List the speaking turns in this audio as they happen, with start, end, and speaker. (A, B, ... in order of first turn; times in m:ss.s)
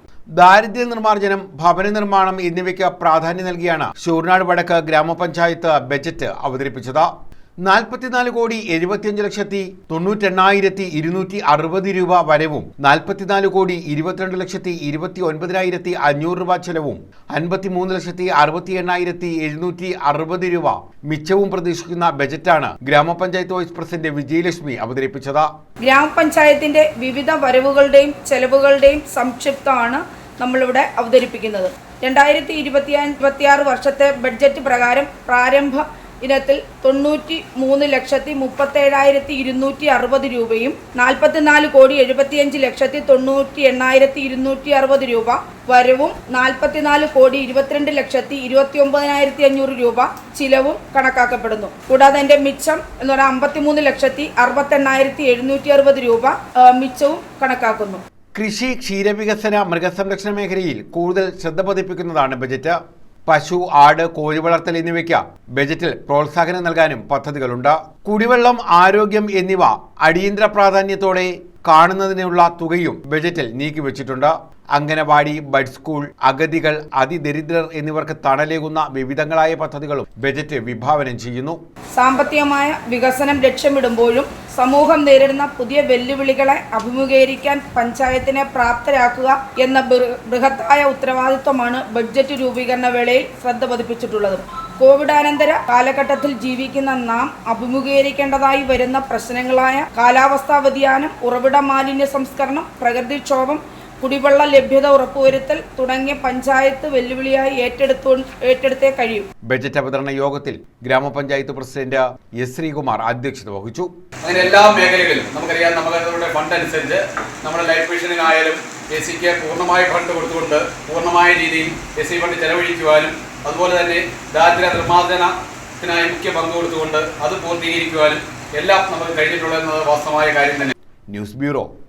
0:00.4-0:07.1 A
0:07.6-0:25.5 A
0:25.8-0:58.0 B
0:58.4-1:21.6 A
1:22.0-1:49.3 B
1:49.5-1:53.9 A
1:54.2-2:10.7 C
2:11.1-2:11.7 A